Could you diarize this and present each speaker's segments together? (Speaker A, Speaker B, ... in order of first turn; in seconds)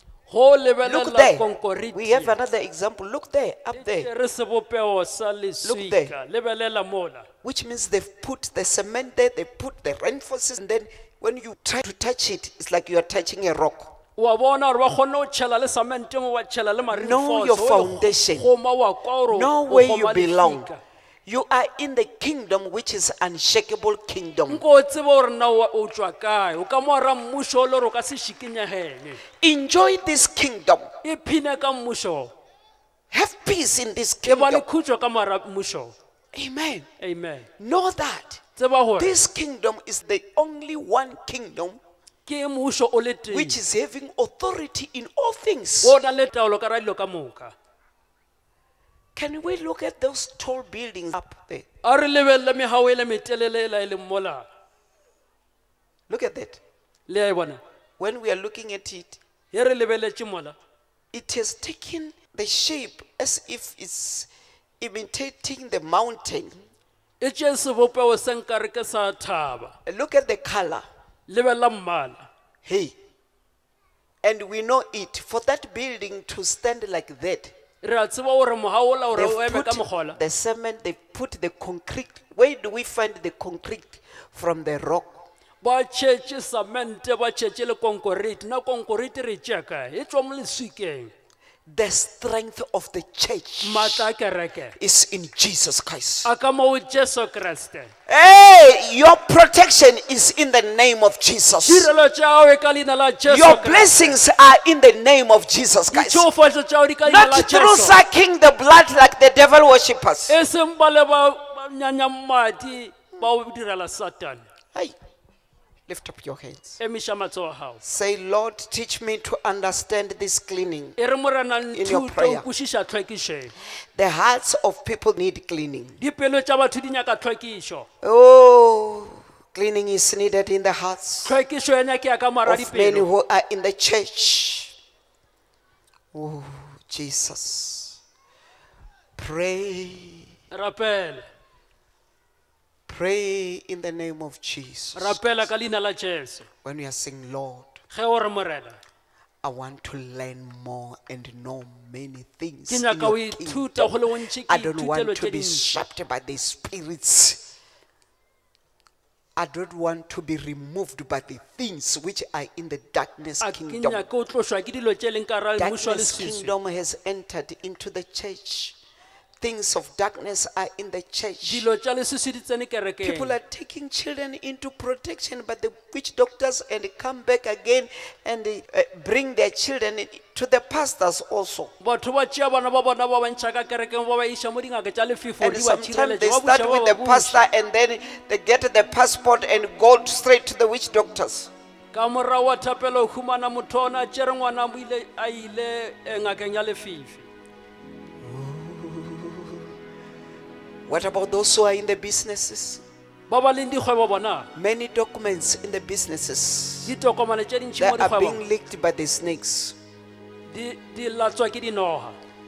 Speaker A: 0.3-2.4, 3.7-7.3, 14.2-20.8, 24.5-29.2, 31.0-32.3, 34.2-36.0, 37.0-37.5, 38.6-39.2, 42.3-43.6, 45.8-47.5, 51.8-54.5, 57.1-57.6, 59.5-60.6, 67.2-69.8, 71.3-72.3, 77.8-80.2, 85.6-91.1, 93.6-94.8, 96.2-97.9, 101.6-104.2, 105.9-108.0, 110.3-114.5, 116.8-117.8, 121.0-123.5, 126.0-127.9, 131.2-133.1, 140.5-141.3, 144.9-146.5, 147.9-148.8, 152.7-155.8, 163.4-166.5, 171.4-173.4, 181.8-187.5, 191.9-197.3, 203.3-204.5, 206.8-208.4, 210.5-212.2
Speaker B: 0.8-4.1, 5.6-6.1, 7.4-14.0, 16.9-18.5, 19.3-20.7, 21.3-24.6, 29.4-30.9, 33.1-34.6, 36.3-36.9, 37.6-38.4, 39.0-41.8, 43.3-46.0, 49.1-51.7, 56.1-56.6, 58.0-59.2, 61.1-66.6, 69.9-70.9, 72.7-73.0, 74.2-77.5, 79.1-85.2, 91.7-94.0, 94.8-96.3, 98.1-101.9, 103.2-106.3, 107.1-110.4, 115.9-116.8, 117.8-121.0, 121.7-122.5, 123.9-126.0, 128.0-131.3, 132.5-134.8, 136.1-138.0, 139.2-140.3, 142.9-145.2, 146.6-147.8, 149.4-157.5, 159.4-164.1, 165.6-168.8, 169.4-171.7, 173.0-181.7, 185.4-191.5, 198.2-199.7, 200.9-202.8, 204.6-206.9, 207.8-209.8